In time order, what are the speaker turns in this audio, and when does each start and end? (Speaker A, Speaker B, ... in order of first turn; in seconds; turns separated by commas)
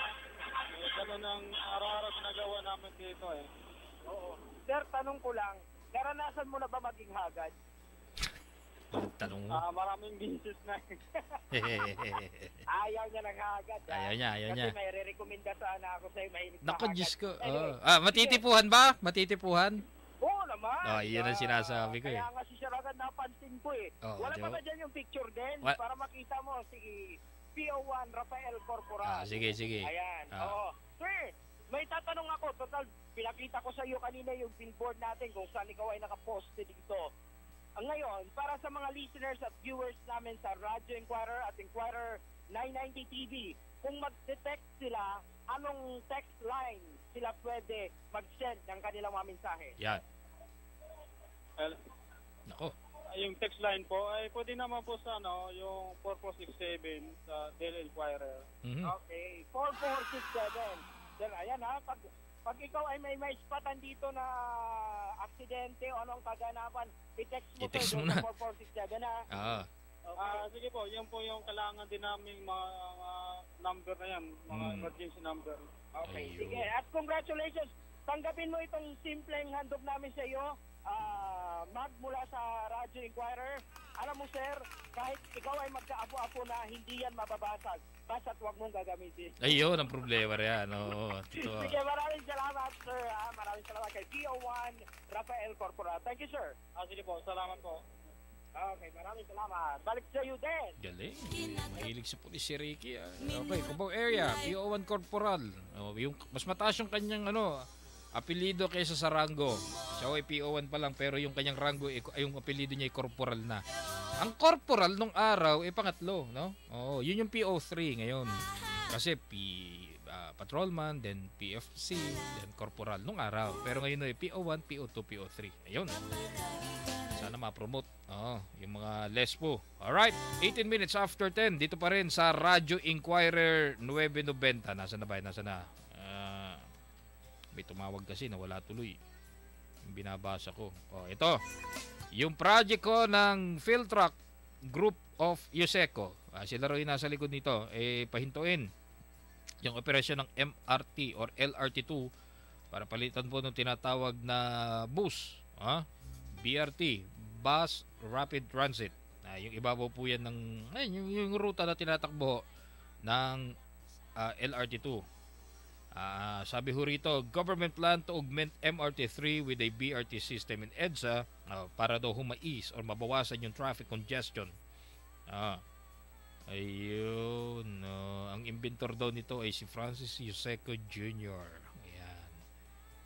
Speaker A: 0.5-3.5, Speaker B: 4.1-7.5, Speaker C: 8.9-9.6, Speaker A: 9.5-10.9, Speaker C: 11.5-12.6, Speaker B: 12.7-18.4, Speaker C: 13.9-14.7, Speaker C: 16.6-19.8, Speaker B: 20.2-27.0, Speaker C: 20.8-22.2, Speaker C: 24.0-24.6, Speaker B: 27.5-37.0, Speaker C: 29.0-30.6, Speaker B: 37.8-49.8, Speaker C: 52.5-52.7, Speaker A: 53.1-58.4, Speaker C: 58.6-58.9, Speaker B: 58.8-69.2, Speaker C: 67.6-68.2, Speaker C: 69.3-69.7, Speaker A: 70.2-75.7, Speaker C: 74.5-74.9, Speaker B: 76.0-89.3, Speaker C: 76.0-76.7, Speaker C: 89.4-91.8, Speaker B: 91.3-96.5, Speaker A: 96.8-97.8, Speaker B: 98.5-100.8, Speaker C: 100.8-107.5, Speaker C: 108.1-113.6, Speaker C: 114.2-118.3, Speaker C: 118.9-126.0, Speaker C: 127.1-136.6, Speaker C: 137.5-139.0, Speaker C: 139.8-141.4, Speaker C: 142.1-144.2, Speaker C: 144.7-148.7, Speaker C: 149.6-152.1, Speaker C: 152.7-155.8, Speaker C: 156.4-162.4, Speaker C: 163.0-163.4, Speaker C: 164.2-165.0, Speaker C: 165.9-174.5, Speaker C: 175.3-175.6, Speaker C: 176.5-182.4